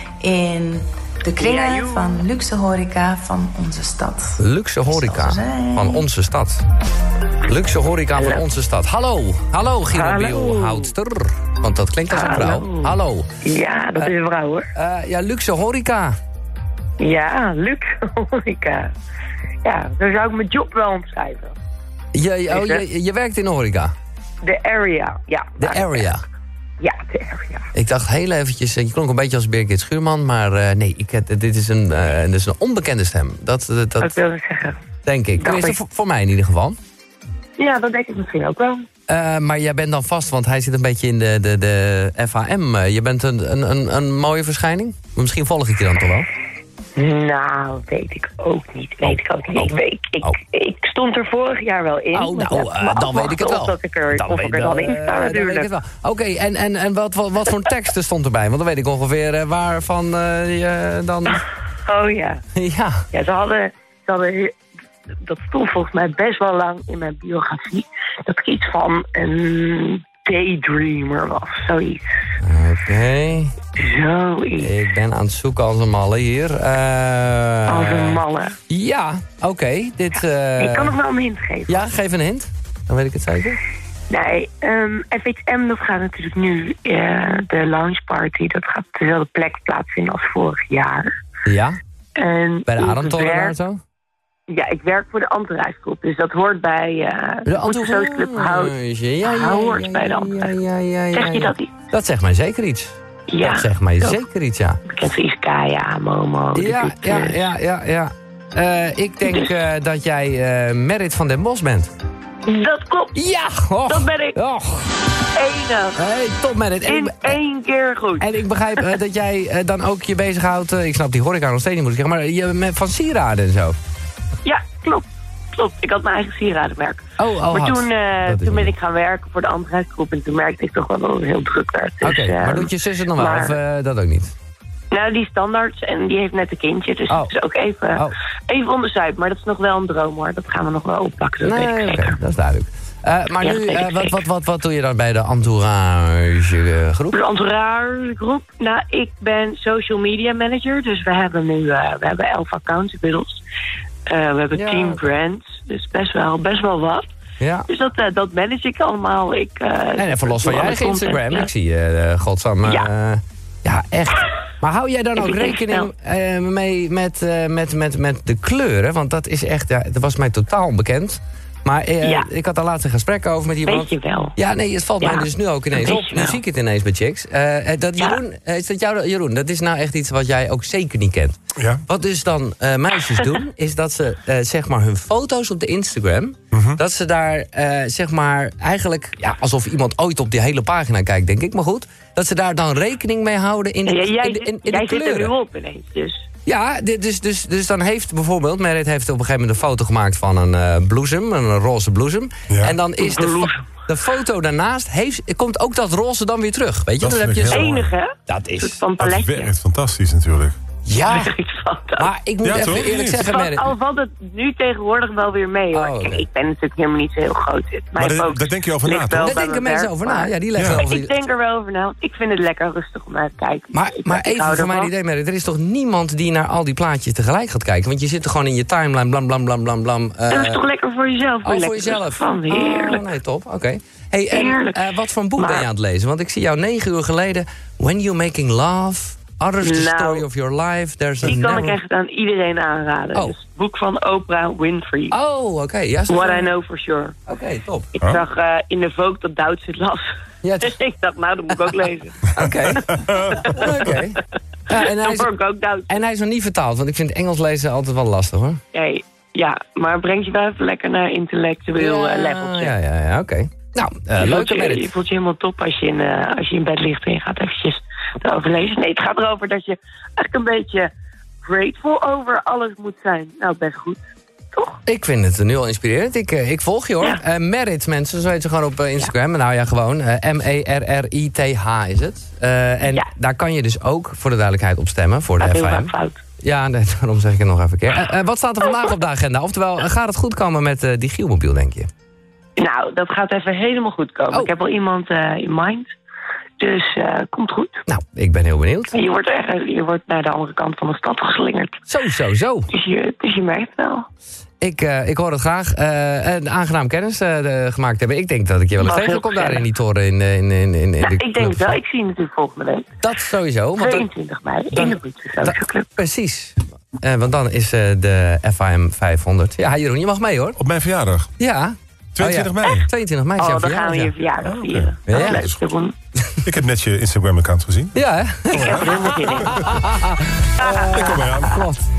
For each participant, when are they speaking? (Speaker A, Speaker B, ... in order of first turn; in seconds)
Speaker A: 0.2-6.0
Speaker B: 1.4-2.1, 8.2-8.4, 9.9-10.9, 12.1-14.7, 17.0-18.9, 19.6-21.6, 22.5-22.8, 24.4-26.1, 26.8-27.6, 34.0-34.8, 35.4-35.8, 37.6-38.9, 47.0-55.7, 61.8-62.4, 63.1-64.5, 65.2-72.1, 73.8-74.7, 77.7-78.6, 80.6-81.9, 84.1-91.1, 92.2-93.5, 94.5-100.5, 101.1-101.7, 103.3-104.2, 104.8-107.5, 109.2-109.5, 112.5-113.2, 113.8-114.4, 115.3-116.0, 116.8-118.9, 124.4-133.6, 134.9-142.2, 143.4-144.2, 147.1-153.4, 154.1-157.1, 157.7-161.5, 162.6-162.9, 165.2-165.9, 172.0-172.3, 173.7-174.3, 175.0-176.4, 193.8-196.2, 203.0-203.8, 207.5-209.5, 211.0-212.1, 213.1-224.9, 230.3-233.0, 234.3-234.8, 235.4-235.7, 239.6-240.2, 241.2-245.2, 246.1-247.2, 248.0-250.1, 250.6-252.2, 253.2-254.0, 254.7-256.0, 258.7-262.8, 264.2-270.9, 271.4-274.8, 285.4-286.2, 292.6-295.9, 296.6-297.8, 298.9-301.8, 302.7-304.1, 308.8-309.7, 311.0-312.9, 313.8-315.9, 323.4-325.9, 328.5-329.8, 330.6-331.6
Speaker C: 4.4-6.6, 7.5-13.3, 14.7-16.1, 22.1-23.9, 25.6-26.2, 27.7-34.1, 35.0-36.8, 39.1-46.3, 49.0-49.7, 52.1-61.4, 62.5-63.0, 72.4-73.5, 74.6-81.0, 81.7-83.6, 91.5-91.8, 92.7-93.8, 97.5-104.8, 106.5-111.9, 113.1-114.9, 116.0-117.4, 118.2-123.8, 127.2-128.7, 132.0-134.3, 137.1-137.3, 141.4-147.2, 154.5-155.0, 157.4-157.7, 159.9-195.3, 196.4-207.8, 208.3-208.8, 210.8-211.3, 212.0-213.7, 215.7-216.2, 219.2-221.1, 223.7-230.6, 231.4-241.8, 245.1-246.5, 247.3-247.9, 250.4-250.7, 252.3-255.3, 255.9-258.6, 261.8-264.9, 274.9-291.9, 297.9-299.0, 301.9-302.7, 304.6-311.8, 313.0-314.1, 314.7-320.6, 321.4-324.1, 325.1-325.5, 327.9-331.8
Speaker D: 181.6-181.8, 186.5-186.8, 202.5-202.8, 207.0-207.9, 209.0-210.6, 212.4-213.3, 218.0-219.3, 220.5-220.9, 253.0-253.4, 320.6-321.3, 322.1-322.9, 324.4-325.6, 326.4-329.7, 330.9-331.6